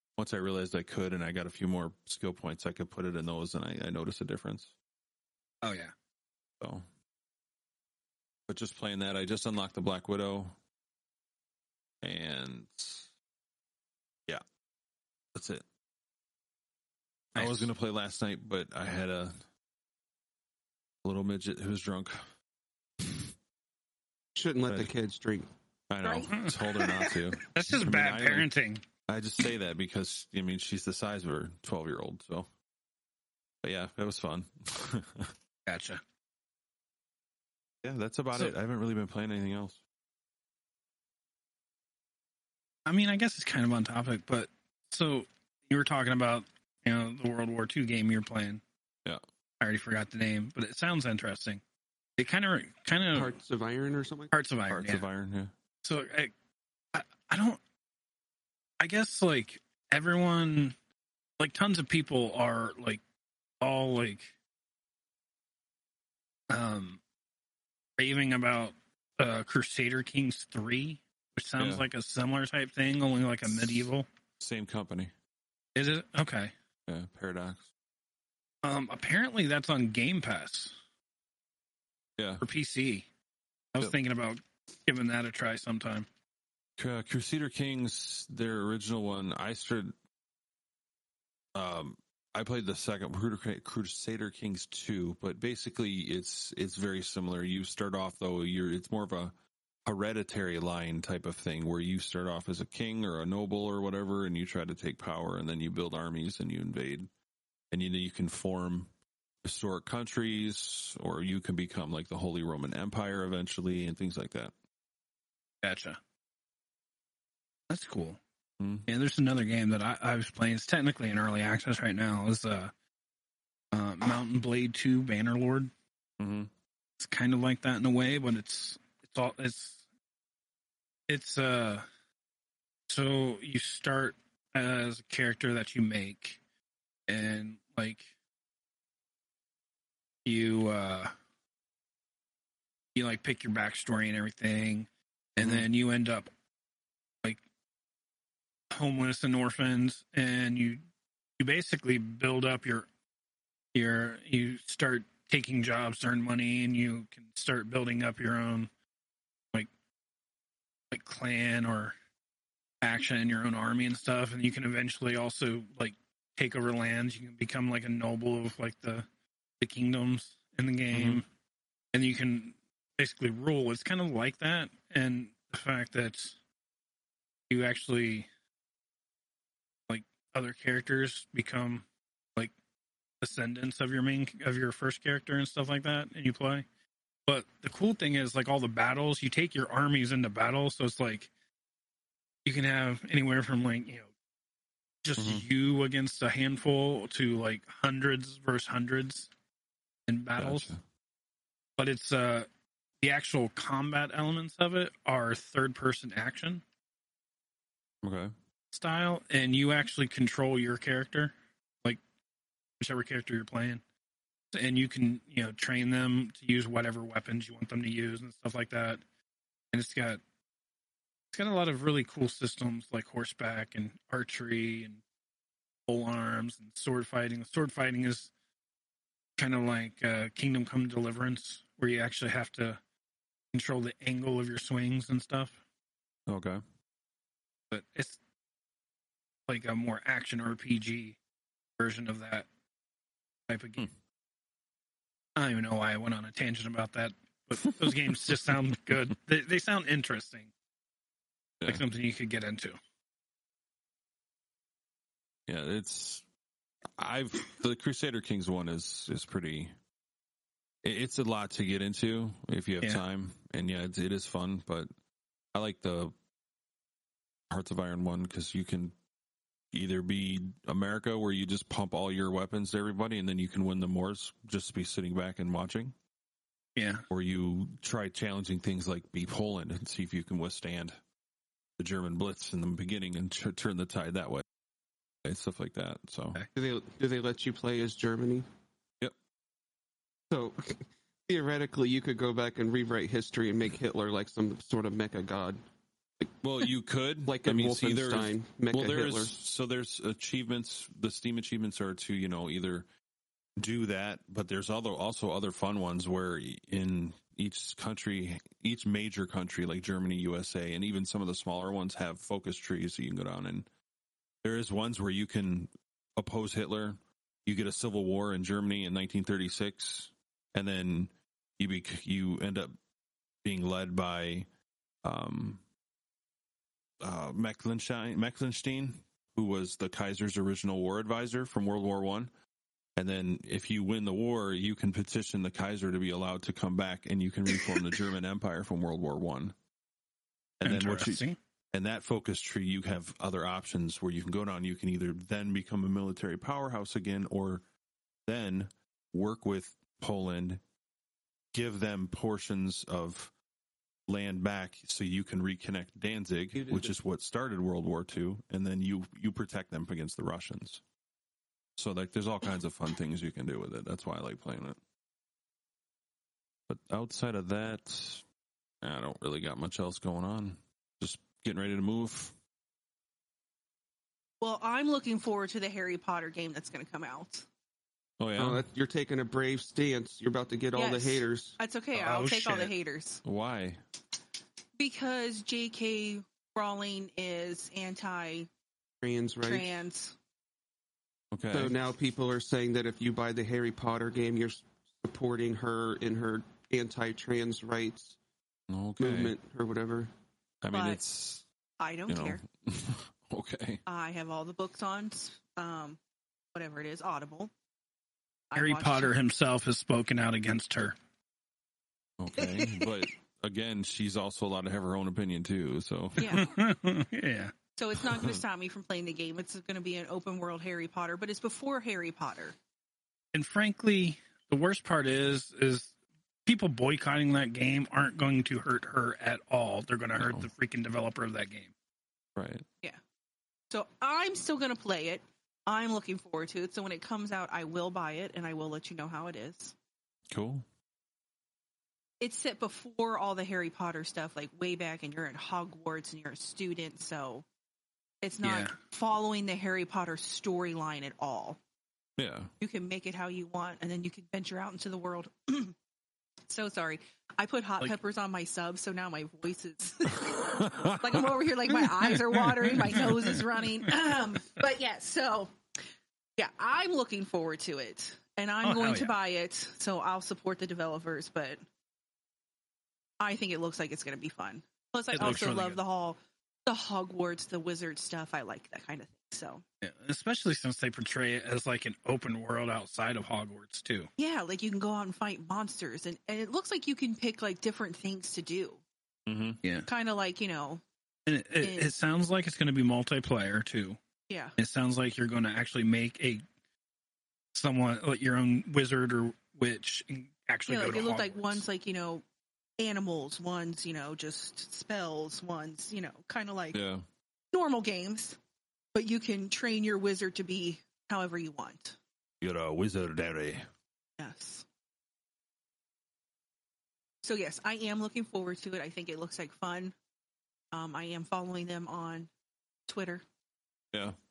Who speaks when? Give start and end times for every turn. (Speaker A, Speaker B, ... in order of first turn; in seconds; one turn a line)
Speaker A: 0.2-4.7
Speaker B: 5.6-5.9
Speaker A: 6.6-6.8
Speaker A: 8.5-10.5
Speaker A: 12.0-13.1
Speaker A: 15.3-15.6
Speaker B: 17.4-17.7
Speaker A: 17.4-19.4
Speaker A: 21.0-22.2
Speaker A: 23.0-23.2
Speaker C: 24.4-25.5
Speaker A: 25.9-28.5
Speaker D: 26.0-27.2
Speaker B: 26.3-26.6
Speaker B: 27.5-28.8
Speaker A: 29.1-32.5
Speaker A: 33.6-35.3
Speaker B: 35.7-36.0
Speaker A: 37.8-39.8
Speaker B: 42.9-48.6
Speaker B: 49.6-51.6
Speaker B: 52.2-53.3
Speaker C: 53.1-54.3
Speaker B: 54.3-55.0
Speaker A: 54.7-55.5
Speaker B: 55.8-56.3
Speaker B: 56.9-57.6
Speaker B: 58.8-60.8
Speaker B: 61.4-63.0
Speaker B: 63.6-64.3
Speaker B: 66.5-67.0
Speaker B: 68.0-74.1
Speaker A: 71.6-71.8
Speaker A: 73.5-73.9
Speaker A: 74.4-75.1
Speaker B: 75.8-76.5
Speaker A: 76.9-77.7
Speaker B: 78.6-80.8
Speaker A: 82.2-82.4
Speaker B: 82.4-83.0
Speaker B: 83.7-86.1
Speaker A: 86.8-89.9
Speaker A: 91.5-99.3
Speaker A: 99.8-107.1
Speaker A: 107.7-108.9
Speaker A: 109.4-114.5
Speaker B: 115.6-116.0
Speaker B: 117.7-118.2
Speaker A: 118.6-118.9
Speaker B: 118.9-122.7
Speaker B: 123.7-125.7
Speaker A: 126.2-126.5
Speaker B: 127.0-129.8
Speaker B: 131.1-131.8
Speaker B: 132.9-136.4
Speaker B: 137.1-138.1
Speaker B: 140.2-141.1
Speaker B: 142.9-146.3
Speaker A: 145.4-145.7
Speaker B: 148.7-150.8
Speaker B: 151.4-152.9
Speaker B: 153.7-158.7
Speaker B: 160.9-161.9
Speaker B: 162.8-169.1
Speaker B: 169.6-171.2
Speaker A: 170.9-171.2
Speaker B: 171.9-176.4
Speaker B: 177.5-178.3
Speaker B: 179.9-181.8
Speaker B: 183.2-186.6
Speaker B: 187.3-191.3
Speaker B: 192.4-194.1
Speaker B: 195.0-199.3
Speaker A: 195.2-195.4
Speaker B: 200.1-200.7
Speaker A: 200.4-200.8
Speaker B: 201.8-202.5
Speaker B: 203.0-206.6
Speaker A: 208.0-208.3
Speaker B: 208.7-211.3
Speaker B: 212.8-213.8
Speaker B: 214.5-219.0
Speaker B: 219.7-220.2
Speaker B: 221.3-225.0
Speaker B: 225.9-228.3
Speaker B: 229.4-232.8
Speaker B: 233.5-235.6
Speaker A: 236.3-236.6
Speaker B: 237.7-238.2
Speaker B: 239.5-241.2
Speaker B: 241.8-242.5
Speaker B: 243.5-243.9
Speaker B: 245.3-250.5
Speaker B: 251.7-252.8
Speaker A: 255.5-256.2
Speaker A: 257.0-259.7
Speaker A: 260.8-264.9
Speaker A: 265.5-266.1
Speaker A: 267.5-268.9
Speaker A: 269.7-275.9
Speaker B: 276.8-277.1
Speaker A: 277.1-281.0
Speaker A: 281.8-284.4
Speaker A: 285.2-286.4
Speaker C: 286.5-288.4
Speaker C: 290.3-295.6
Speaker A: 296.4-302.9
Speaker C: 297.2-299.3
Speaker A: 303.6-313.7
Speaker A: 314.4-322.7
Speaker A: 323.4-324.5
Speaker A: 325.0-325.6
Speaker A: 327.0-332.3
Speaker A: 333.0-339.5
Speaker A: 340.6-347.6
Speaker B: 340.6-341.4
Speaker A: 348.2-350.6
Speaker A: 351.5-353.3
Speaker A: 354.1-360.8
Speaker C: 356.5-357.0
Speaker A: 361.8-364.8
Speaker A: 366.7-368.2
Speaker A: 368.8-372.3
Speaker D: 374.4-377.5
Speaker A: 378.2-378.6
Speaker C: 378.4-381.6
Speaker D: 380.8-383.2
Speaker B: 381.9-382.7
Speaker A: 383.2-383.8
Speaker D: 384.8-388.5
Speaker C: 389.0-389.7
Speaker D: 389.4-390.2
Speaker A: 391.3-391.8
Speaker C: 391.5-398.2
Speaker A: 398.7-399.3
Speaker C: 399.0-400.1
Speaker A: 400.6-401.4
Speaker D: 400.7-401.0
Speaker D: 401.8-402.4
Speaker A: 402.1-403.8
Speaker D: 403.9-406.0
Speaker D: 406.5-407.5
Speaker D: 408.5-409.1
Speaker B: 408.5-411.0
Speaker A: 412.2-416.4
Speaker D: 412.4-413.0
Speaker D: 416.2-416.5
Speaker B: 416.3-417.5
Speaker D: 417.8-422.6
Speaker B: 423.3-425.9
Speaker B: 426.5-431.7
Speaker A: 430.2-430.5
Speaker A: 432.4-432.6
Speaker D: 433.7-439.8
Speaker A: 440.3-440.6
Speaker D: 442.2-447.4
Speaker D: 448.2-451.6
Speaker B: 448.4-448.7
Speaker A: 452.2-452.5
Speaker D: 452.6-455.8
Speaker D: 456.5-465.5
Speaker A: 460.3-461.3
Speaker B: 461.8-463.4
Speaker D: 466.4-471.6
Speaker B: 468.6-469.1
Speaker D: 473.2-479.6
Speaker B: 475.1-475.8
Speaker B: 479.8-484.1
Speaker D: 484.2-488.8
Speaker A: 489.3-489.6
Speaker B: 489.6-489.9
Speaker D: 489.9-490.8
Speaker B: 491.3-494.0
Speaker D: 491.6-491.9
Speaker D: 494.3-494.5
Speaker B: 494.6-496.4
Speaker B: 497.5-501.6
Speaker D: 500.7-502.2
Speaker D: 502.8-506.8
Speaker A: 506.7-507.0
Speaker D: 507.5-508.4
Speaker D: 508.9-512.0
Speaker A: 512.4-513.6
Speaker D: 514.2-514.6
Speaker D: 517.2-519.9
Speaker D: 520.7-522.3
Speaker D: 522.9-523.2